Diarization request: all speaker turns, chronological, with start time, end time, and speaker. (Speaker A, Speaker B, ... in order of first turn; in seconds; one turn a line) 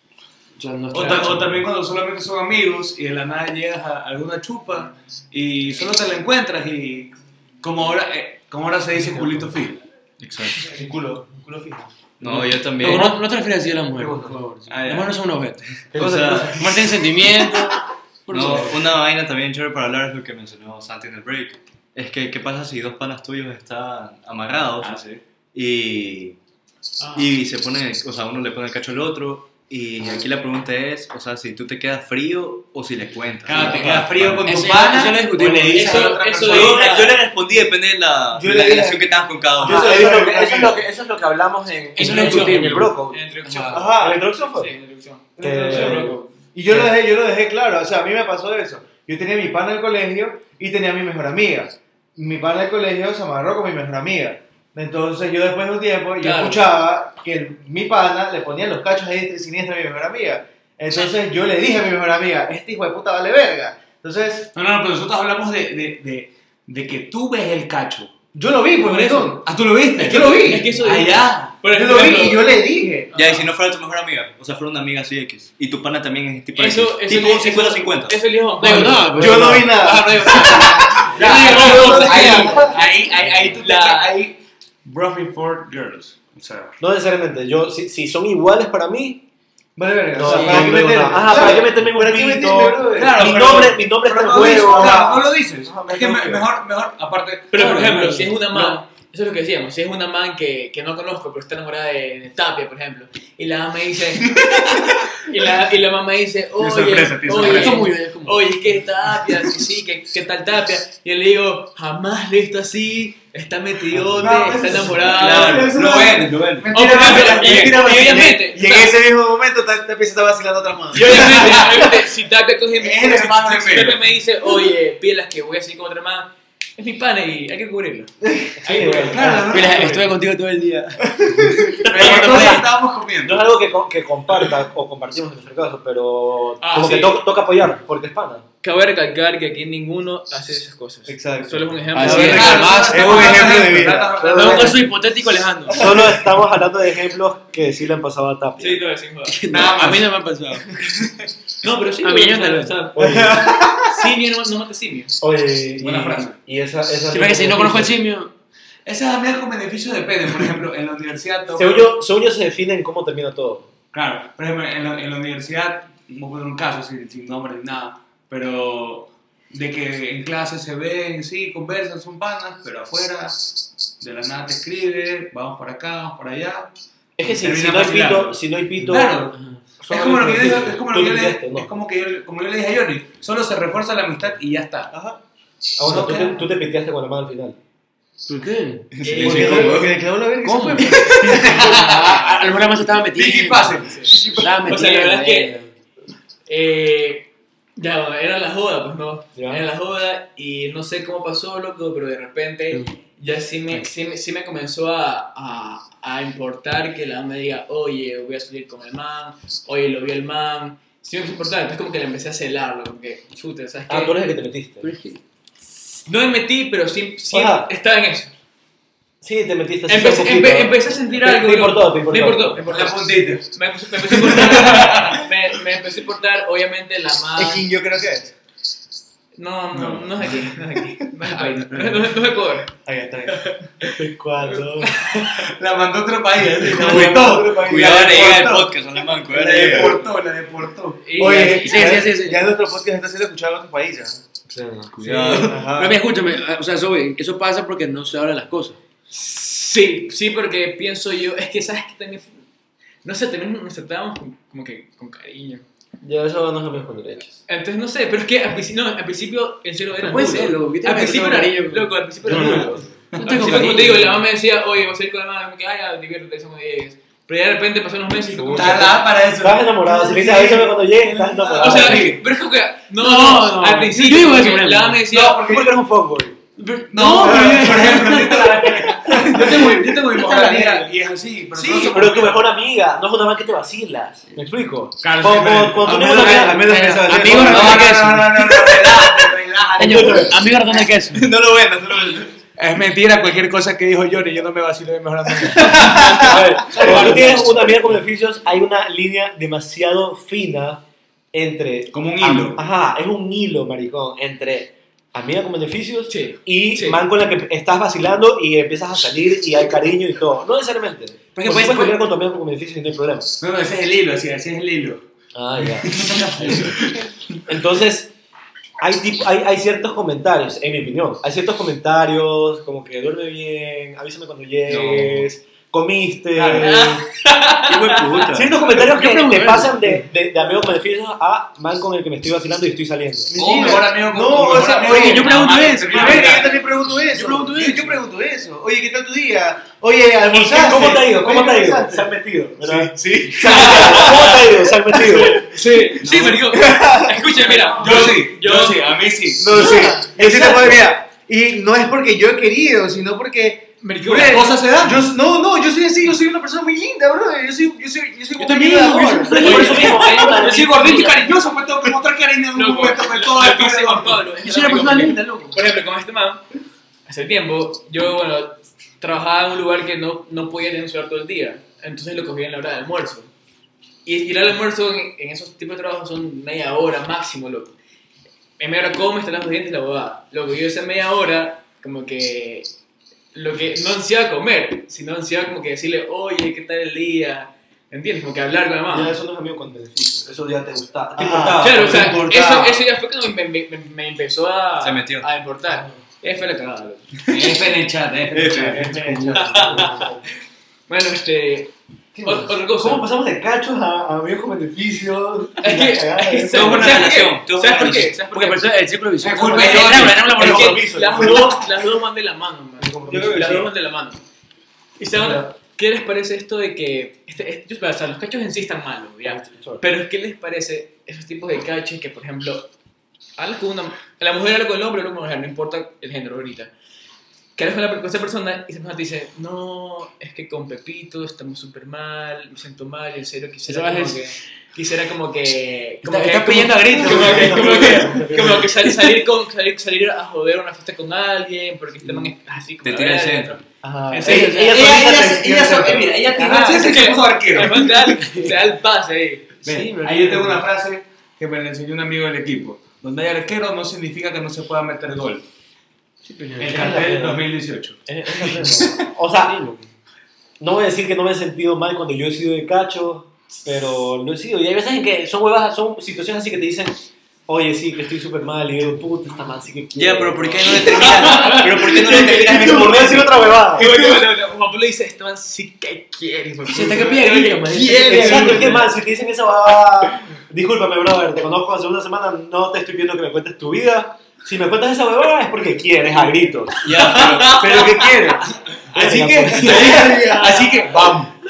Speaker A: 0.6-1.6
Speaker B: 0.9-10.7
Speaker C: 10.6-11.9
Speaker D: 12.2-13.1
Speaker A: 12.2-15.6
Speaker E: 14.0-14.4
Speaker B: 14.7-15.2
Speaker E: 15.9-16.8
Speaker D: 15.9-16.6
Speaker A: 16.5-18.8
Speaker D: 18.3-25.0
Speaker E: 18.4-18.7
Speaker B: 24.8-25.2
Speaker D: 25.5-26.4
Speaker F: 27.0-27.3
Speaker D: 27.1-34.5
Speaker B: 33.5-37.1
Speaker A: 34.4-36.2
Speaker F: 35.7-37.2
Speaker D: 36.5-40.1
Speaker C: 38.3-40.8
Speaker E: 39.6-43.2
Speaker A: 42.0-43.6
Speaker F: 42.0-43.9
Speaker C: 43.7-44.2
Speaker E: 43.9-44.7
Speaker F: 44.5-46.3
Speaker C: 45.4-64.5
Speaker E: 45.4-46.1
Speaker F: 56.2-56.7
Speaker B: 64.5-68.1
Speaker C: 68.3-69.5
Speaker F: 68.8-69.3
Speaker B: 69.4-71.6
Speaker C: 70.0-70.7
Speaker F: 70.1-72.5
Speaker C: 71.7-73.1
Speaker F: 73.1-73.5
Speaker D: 73.1-78.2
Speaker F: 76.5-79.2
Speaker A: 78.6-82.5
Speaker C: 79.1-82.8
Speaker E: 79.2-79.7
Speaker B: 81.0-86.8
Speaker F: 81.1-84.2
Speaker E: 86.8-89.2
Speaker C: 89.8-93.3
Speaker E: 90.1-96.5
Speaker A: 90.3-90.9
Speaker B: 93.0-98.2
Speaker C: 94.3-95.0
Speaker F: 97.5-104.4
Speaker A: 97.6-98.5
Speaker B: 104.2-105.1
Speaker F: 105.2-115.7
Speaker B: 106.6-107.9
Speaker A: 107.3-108.5
Speaker B: 114.2-118.4
Speaker C: 114.6-121.6
Speaker D: 115.0-116.7
Speaker F: 116.7-119.0
Speaker F: 120.9-128.1
Speaker B: 121.0-121.9
Speaker B: 122.8-124.1
Speaker E: 128.6-129.7
Speaker F: 128.6-129.2
Speaker B: 129.1-130.1
Speaker A: 129.5-131.0
Speaker C: 131.2-131.5
Speaker A: 131.8-132.6
Speaker B: 131.8-133.5
Speaker E: 131.9-132.6
Speaker E: 133.2-138.4
Speaker F: 136.6-137.2
Speaker F: 138.6-142.9
Speaker C: 141.1-142.3
Speaker A: 141.9-143.7
Speaker B: 142.0-144.9
Speaker C: 142.9-144.7
Speaker E: 144.1-144.8
Speaker A: 144.2-145.9
Speaker C: 145.7-146.1
Speaker E: 145.8-148.8
Speaker F: 148.6-149.4
Speaker A: 149.2-150.7
Speaker B: 149.5-150.2
Speaker F: 151.6-155.2
Speaker A: 152.0-152.9
Speaker E: 152.9-153.5
Speaker C: 153.0-154.1
Speaker E: 155.2-158.0
Speaker B: 155.8-156.4
Speaker A: 157.1-158.3
Speaker B: 158.9-161.9
Speaker E: 161.5-163.7
Speaker B: 163.9-176.7
Speaker E: 177.2-181.7
Speaker B: 177.2-179.4
Speaker A: 179.3-179.6
Speaker B: 179.9-184.9
Speaker C: 184.9-185.2
Speaker E: 185.8-187.6
Speaker B: 185.8-186.4
Speaker A: 188.3-195.7
Speaker D: 188.9-189.9
Speaker F: 189.0-189.8
Speaker C: 189.2-192.2
Speaker B: 191.3-192.2
Speaker B: 193.1-194.5
Speaker F: 193.8-195.6
Speaker F: 196.5-214.2
Speaker E: 199.4-199.6
Speaker E: 213.9-214.9
Speaker A: 214.8-215.2
Speaker F: 216.1-218.3
Speaker E: 217.3-217.7
Speaker E: 219.2-222.6
Speaker F: 219.9-227.7
Speaker B: 222.6-223.5
Speaker B: 224.1-225.2
Speaker C: 227.3-228.3
Speaker F: 229.4-232.7
Speaker B: 229.7-230.3
Speaker C: 232.8-233.5
Speaker F: 233.3-233.6
Speaker E: 234.0-234.9
Speaker F: 234.9-235.2
Speaker B: 235.1-238.8
Speaker C: 236.7-238.1
Speaker D: 237.6-240.0
Speaker B: 239.3-241.0
Speaker C: 239.4-240.0
Speaker F: 241.0-242.0
Speaker C: 241.2-244.2
Speaker A: 241.2-242.5
Speaker E: 244.5-245.2
Speaker D: 245.0-245.6
Speaker A: 245.0-248.8
Speaker C: 245.3-246.0
Speaker F: 249.1-252.4
Speaker F: 253.0-255.6
Speaker E: 256.0-257.4
Speaker F: 257.5-269.0
Speaker A: 259.9-264.2
Speaker E: 262.3-262.6
Speaker B: 262.3-262.6
Speaker B: 263.1-263.6
Speaker E: 268.3-272.1
Speaker B: 268.5-272.2
Speaker F: 271.6-275.6
Speaker A: 273.0-275.1
Speaker B: 275.1-275.7
Speaker E: 275.2-276.4
Speaker A: 276.6-280.6
Speaker B: 276.9-282.4
Speaker C: 277.2-277.6
Speaker F: 279.2-280.9
Speaker E: 281.6-286.9
Speaker B: 285.0-297.4
Speaker C: 285.9-287.9
Speaker A: 286.6-289.0
Speaker A: 289.8-291.2
Speaker E: 289.8-290.3
Speaker D: 291.3-292.2
Speaker C: 295.5-296.4
Speaker E: 296.1-300.8
Speaker E: 301.3-313.3
Speaker B: 301.9-302.6
Speaker F: 306.1-307.0
Speaker A: 311.4-312.0
Speaker B: 313.4-317.1
Speaker E: 315.3-316.8
Speaker E: 317.5-318.1
Speaker E: 318.8-327.0
Speaker D: 324.7-325.3
Speaker B: 326.4-326.7
Speaker F: 326.6-328.2
Speaker D: 327.6-328.6
Speaker E: 328.3-333.3
Speaker A: 328.6-330.0
Speaker C: 333.3-342.1
Speaker B: 333.4-336.5
Speaker A: 334.9-338.0
Speaker E: 340.3-345.4
Speaker B: 342.6-344.5
Speaker C: 343.4-344.1
Speaker F: 343.5-343.9
Speaker F: 345.0-348.9
Speaker A: 346.1-346.4
Speaker C: 346.5-348.1
Speaker B: 347.8-350.0
Speaker C: 349.4-353.7
Speaker E: 349.6-350.8
Speaker F: 353.8-354.6
Speaker B: 354.0-355.1
Speaker C: 354.8-359.9
Speaker A: 358.5-360.0
Speaker E: 359.1-361.0
Speaker F: 359.3-361.4
Speaker B: 360.2-364.3
Speaker F: 362.5-366.4
Speaker A: 364.4-365.6
Speaker F: 367.1-373.3
Speaker F: 374.1-377.8
Speaker F: 378.6-382.7
Speaker F: 383.3-389.1
Speaker E: 388.9-392.3
Speaker C: 391.2-392.8
Speaker F: 391.6-397.1
Speaker D: 394.8-395.3
Speaker B: 397.3-399.2
Speaker E: 398.3-400.2
Speaker F: 399.4-399.8
Speaker F: 400.9-403.1
Speaker E: 402.1-406.8
Speaker F: 405.6-408.7
Speaker D: 406.5-408.2
Speaker B: 406.5-407.2
Speaker A: 408.1-411.5
Speaker B: 409.2-410.5
Speaker F: 409.4-414.2
Speaker E: 410.3-411.6
Speaker E: 412.8-413.7
Speaker F: 415.0-422.7
Speaker E: 415.1-415.5
Speaker E: 419.2-419.8
Speaker F: 423.4-426.7
Speaker F: 427.6-443.6
Speaker A: 433.7-434.2
Speaker A: 436.0-439.2
Speaker E: 437.0-438.6
Speaker D: 442.8-443.6
Speaker C: 443.8-444.4
Speaker E: 443.8-446.4
Speaker B: 444.1-447.9
Speaker F: 446.3-449.5
Speaker A: 447.8-448.6
Speaker A: 449.6-450.6
Speaker B: 449.6-455.4
Speaker A: 456.2-457.2
Speaker B: 456.6-458.0
Speaker E: 456.6-457.4
Speaker E: 458.1-459.6
Speaker A: 459.3-459.8
Speaker E: 460.6-473.9
Speaker D: 469.9-473.9
Speaker F: 470.7-472.8
Speaker F: 473.7-478.9
Speaker A: 476.7-478.8
Speaker E: 478.0-487.8
Speaker D: 486.8-488.0
Speaker F: 487.1-487.6
Speaker C: 487.6-488.4
Speaker E: 488.9-490.3
Speaker B: 488.9-491.3
Speaker C: 489.6-490.7